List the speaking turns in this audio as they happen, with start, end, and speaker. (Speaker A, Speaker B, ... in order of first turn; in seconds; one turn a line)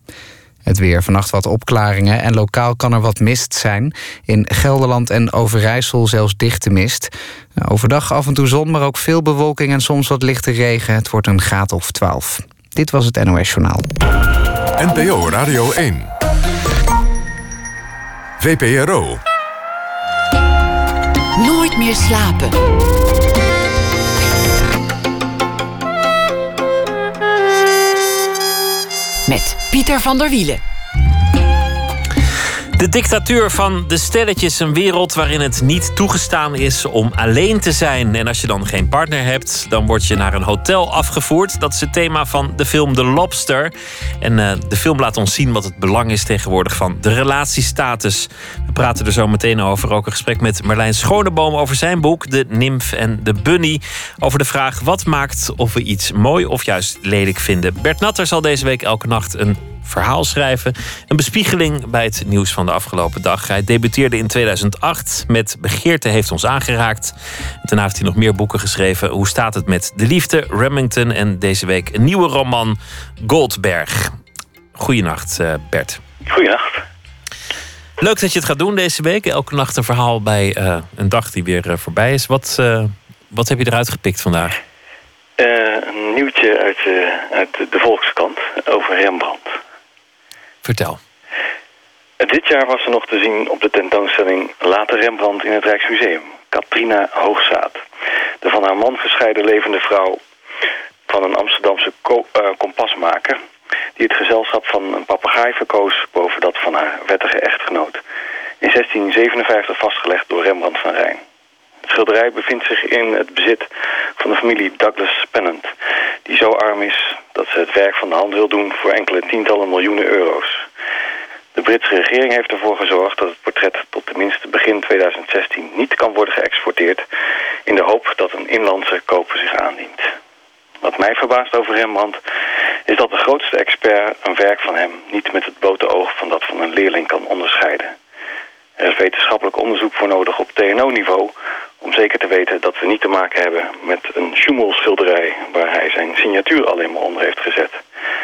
Speaker A: 0.7-13.9
Speaker B: 14.8-16.1
Speaker B: 18.4-19.2
Speaker C: 21.4-22.6
Speaker C: 29.3-30.6
Speaker D: 32.8-74.1
Speaker D: 74.8-76.0
Speaker E: 76.3-76.8
Speaker D: 78.0-84.6
Speaker E: 85.4-89.5
Speaker D: 90.6-91.0
Speaker E: 92.2-97.8
Speaker E: 98.4-100.2
Speaker E: 101.1-103.4
Speaker E: 104.0-108.0
Speaker E: 108.6-111.2
Speaker E: 111.8-115.7
Speaker E: 116.2-120.6
Speaker E: 121.5-127.0
Speaker E: 127.7-130.1
Speaker E: 130.8-132.2
Speaker E: 132.9-137.9
Speaker E: 138.8-147.8